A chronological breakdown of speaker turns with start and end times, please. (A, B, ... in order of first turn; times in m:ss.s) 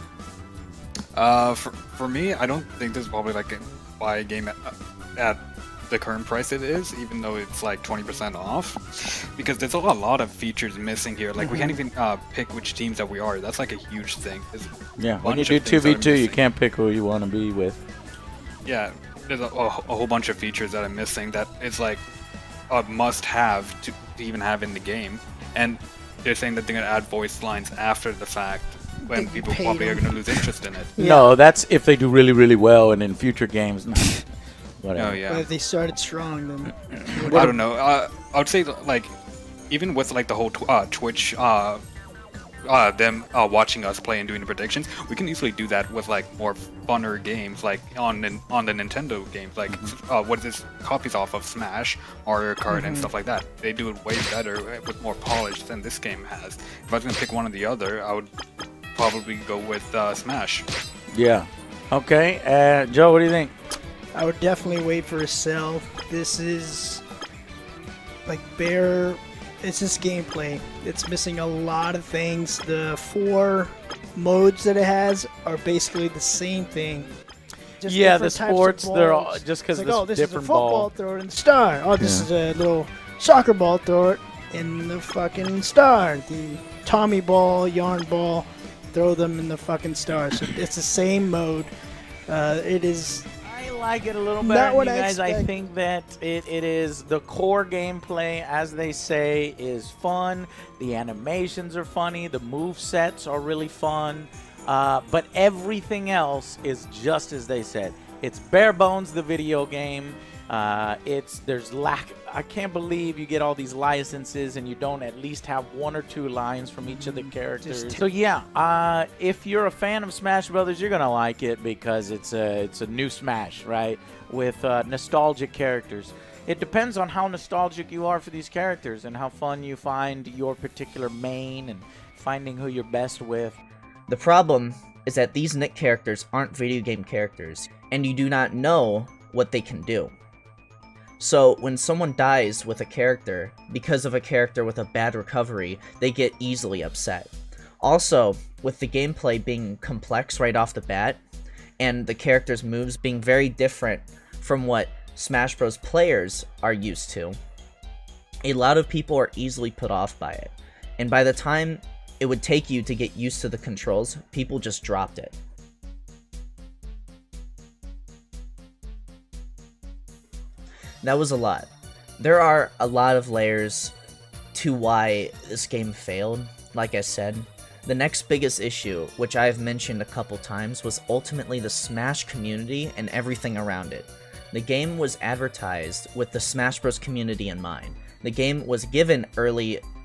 0:01.1-0:16.4 A
0:11.4-0:11.7 B
0:15.0-0:17.8 B
0:18.6-0:22.0 A
0:22.7-0:30.9 A
0:29.0-0:31.3 C
0:31.0-0:34.2 B
0:34.8-0:35.2 B
0:35.0-0:35.5 A
0:35.3-0:37.6 C
0:36.7-0:37.6 B
0:37.3-0:39.1 A
0:39.7-0:41.8 A
0:42.6-0:58.3 A
0:52.7-0:53.1 C
0:59.0-1:00.6 A
1:01.1-1:03.5 B
1:04.1-1:07.0 C
1:08.3-1:17.1 C
1:17.8-1:31.7 C
1:17.8-1:20.9 B
1:22.0-1:22.3 B
1:32.3-1:33.3 C
1:33.4-2:13.6 B
1:34.4-1:35.5 C
1:56.8-1:58.0 C
2:14.1-2:20.1 D
2:21.2-2:31.2 D
2:31.8-2:37.4 D
2:38.4-2:45.4 D
2:51.0-2:53.9 D
2:54.5-3:09.8 D